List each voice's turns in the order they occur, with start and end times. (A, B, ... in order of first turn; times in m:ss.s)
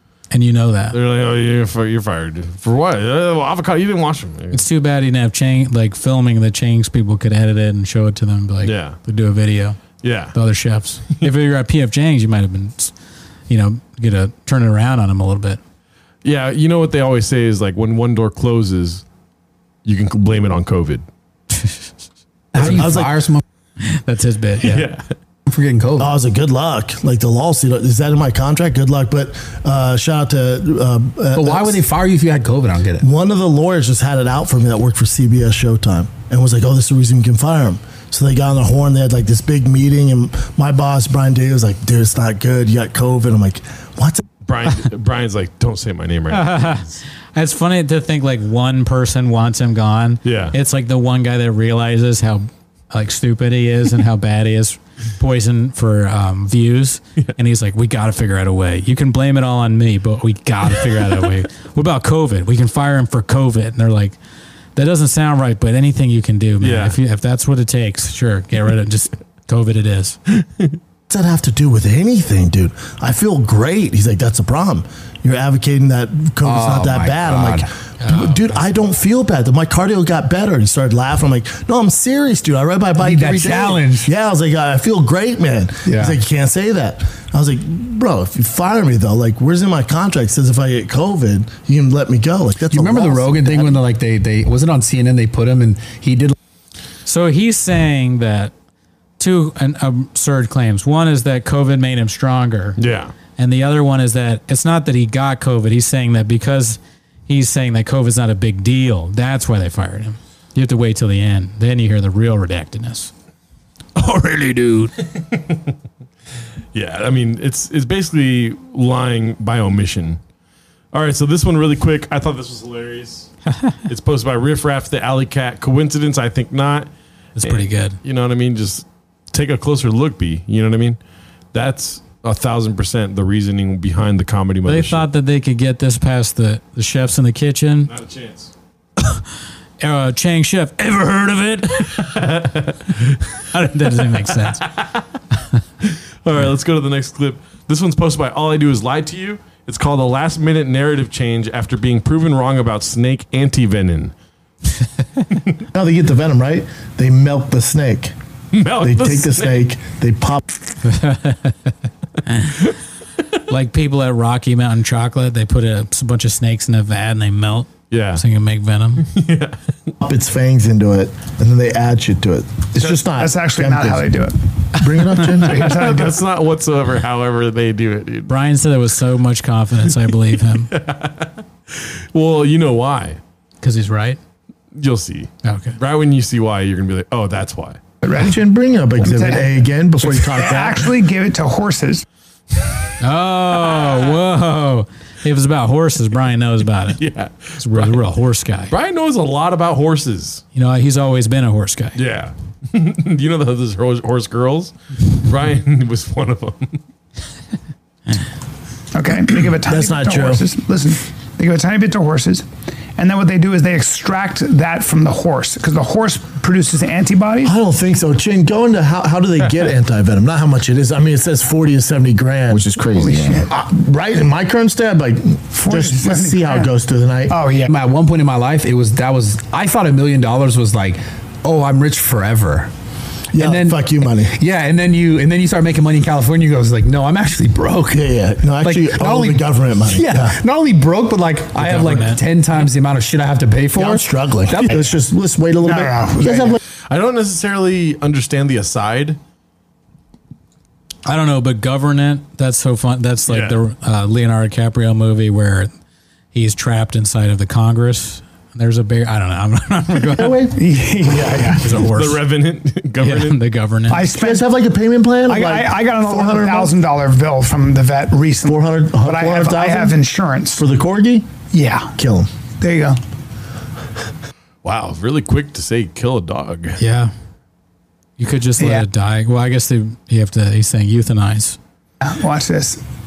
0:00.3-0:01.0 A
0:00.9-0:04.6 B
0:04.5-0:09.8 A
0:08.6-0:09.0 B
0:10.0-0:10.4 B
0:10.3-0:12.9 A
0:13.5-0:15.6 A
0:16.2-0:19.0 B
0:19.8-0:21.0 B
0:22.5-0:23.4 C
0:22.6-0:23.3 D
0:23.8-0:24.9 A
0:24.6-0:25.0 B
0:25.5-0:26.1 C
0:26.0-0:31.8 D
0:31.3-0:33.1 C
0:33.0-0:44.2 D
0:44.4-0:47.0 B
0:46.3-1:04.2 A
0:50.2-0:50.6 B
1:04.8-1:10.2 A
1:06.6-1:07.0 B
1:10.4-1:10.8 B
1:11.1-1:33.8 D
1:16.4-1:17.7 C
1:18.0-1:18.6 A
1:23.0-1:24.1 C
1:25.8-1:26.2 C
1:32.7-1:36.4 C
1:37.1-1:38.5 A
1:39.2-1:42.8 A
1:42.8-1:43.1 B
1:43.4-1:53.1 A
1:54.0-1:54.9 A
1:55.2-1:55.6 B
1:56.7-2:00.2 B
2:00.9-2:03.3 B
2:03.9-2:06.9 B
2:07.4-2:08.0 A
2:07.4-2:11.0 B
2:11.5-2:15.0 B
2:14.7-2:17.9 A
2:17.9-2:18.5 B
2:19.8-2:22.1 A
2:21.9-2:23.4 B
2:23.5-2:24.7 A
2:24.5-2:24.8 B
2:25.8-2:34.1 B
2:35.7-2:38.1 D
2:38.5-2:39.7 B
2:38.8-2:40.4 D
2:40.8-2:41.7 A
2:42.3-2:42.6 A
2:43.5-2:49.1 A
2:47.9-2:48.2 B
2:49.0-2:49.6 B
2:50.0-2:54.2 D
2:52.8-2:56.2 E
2:54.8-2:55.7 D
2:55.6-2:58.3 B
2:58.3-3:00.7 A
3:00.7-3:03.2 B
3:03.6-3:04.2 A
3:04.7-3:07.8 B
3:05.4-3:05.8 A
3:08.0-3:08.4 E
3:08.2-3:10.9 D
3:09.0-3:12.0 E
3:13.0-3:17.0 A
3:17.0-3:18.0 B
3:17.6-3:18.7 A
3:18.7-3:20.4 B
3:20.6-3:22.0 A
3:22.0-3:26.8 B
3:28.9-3:37.6 E
3:29.7-3:30.4 D
3:37.4-3:42.8 D
3:42.9-3:43.5 E
3:43.5-3:47.4 D
3:45.5-3:46.7 E
3:47.3-3:47.7 E
3:47.7-3:52.7 C
3:53.3-3:54.4 D
3:53.3-3:58.1 C
3:57.9-4:00.4 D
3:58.6-4:04.8 C
4:01.6-4:02.2 A
4:03.8-4:06.6 D
4:05.6-4:06.6 E
4:06.9-4:09.2 B
4:11.1-4:15.7 A
4:13.3-4:13.6 B
4:16.3-4:20.5 A
4:20.2-4:20.6 D
4:20.5-4:21.8 E
4:21.6-4:22.2 A
4:21.9-4:23.4 B
4:23.0-4:24.0 A
4:23.9-4:24.6 E
4:24.1-4:26.7 D
4:25.2-4:30.6 E
4:28.4-4:30.0 D
4:30.5-4:31.4 D
4:31.5-4:32.0 E
4:32.0-4:32.3 D
4:32.6-4:33.0 E
4:34.6-4:36.8 B
4:36.8-4:37.1 A
4:38.2-4:41.6 A
4:38.6-4:38.9 E
4:42.0-4:42.8 E